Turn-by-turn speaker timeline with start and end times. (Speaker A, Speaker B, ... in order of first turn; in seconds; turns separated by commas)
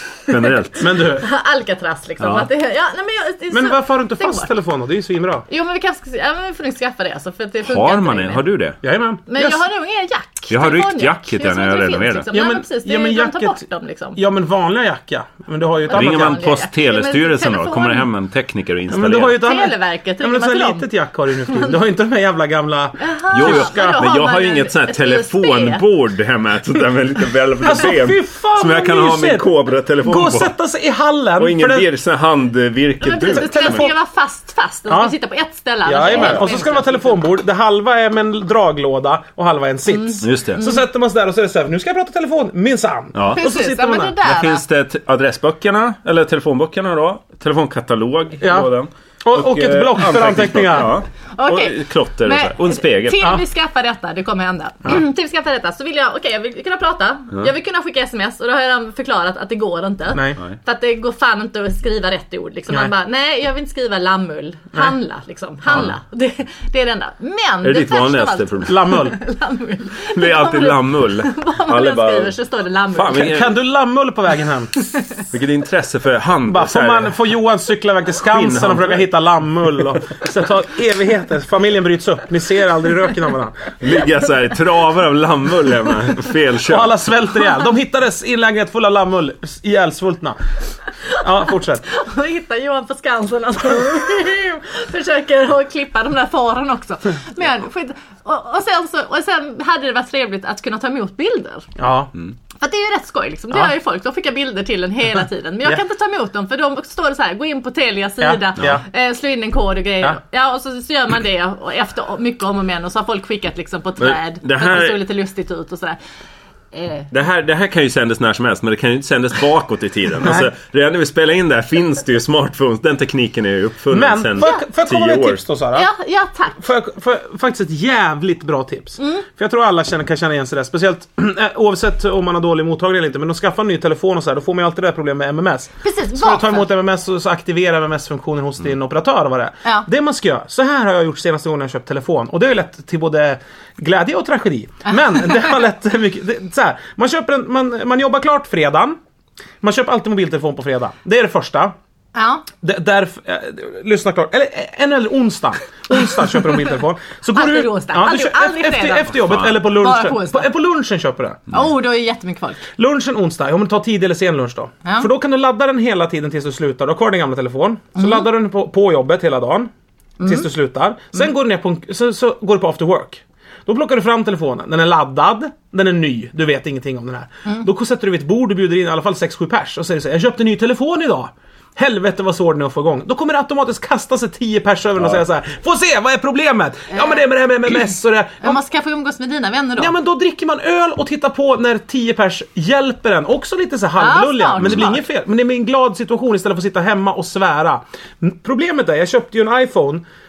Speaker A: 0.2-0.9, Speaker B: 0.8-1.3, Speaker C: 1.2-4.5, Speaker A: 2.2-2.5, Speaker B: 3.5-5.5, Speaker C: 5.5-8.4, Speaker A: 7.7-8.8, Speaker B: 8.8-9.6, Speaker C: 9.3-14.2, Speaker A: 10.5-12.3, Speaker B: 12.3-13.6, Speaker B: 14.2-16.4, Speaker C: 15.9-18.1, Speaker A: 15.9-19.4, Speaker B: 18.9-24.0, Speaker C: 19.4-20.9, Speaker C: 21.5-21.7, Speaker C: 23.0-25.8, Speaker A: 23.3-30.5, Speaker B: 27.6-29.5, Speaker B: 30.0-31.9, Speaker A: 31.4-33.9, Speaker C: 33.0-37.2, Speaker B: 33.3-34.0, Speaker B: 34.9-35.1, Speaker B: 35.8-44.1, Speaker A: 36.1-36.4, Speaker C: 39.9-40.8, Speaker A: 40.2-40.6, Speaker A: 43.1-43.4, Speaker C: 43.3-44.6, Speaker A: 44.2-53.3, Speaker B: 48.4-48.7, Speaker B: 49.2-50.9, Speaker C: 51.4-73.4, Speaker B: 60.1-60.4, Speaker A: 67.6-68.8, Speaker B: 68.7-69.2, Speaker A: 70.1-72.3, Speaker A: 72.9-73.5, Speaker B: 73.1-74.7, Speaker A: 75.3-77.2, Speaker B: 76.5-83.6, Speaker A: 78.2-79.1, Speaker A: 83.8-87.0, Speaker B: 86.7-90.4, Speaker B: 91.2-91.8, Speaker C: 91.8-101.7, Speaker B: 101.8-102.1, Speaker C: 102.6-116.0, Speaker B: 108.2-108.8, Speaker A: 114.0-115.0, Speaker C: 116.7-117.1, Speaker A: 117.1-125.4, Speaker B: 120.2-120.5, Speaker B: 123.9-125.9, Speaker C: 125.7-126.6, Speaker B: 126.6-149.0, Speaker C: 129.0-129.2, Speaker C: 135.8-136.7, Speaker B: 149.6-151.7, Speaker C: 152.1-152.4, Speaker B: 152.6-161.5, Speaker C: 157.3-160.5, Speaker A: 159.2-159.6, Speaker C: 161.5-162.6, Speaker B: 162.8-169.7, Speaker C: 168.0-168.2, Speaker C: 170.2-170.5, Speaker B: 170.2-188.6, Speaker C: 186.9-187.2, Speaker C: 188.4-189.9, Speaker B: 189.8-200.0, Speaker C: 194.0-195.0, Speaker A: 194.6-194.9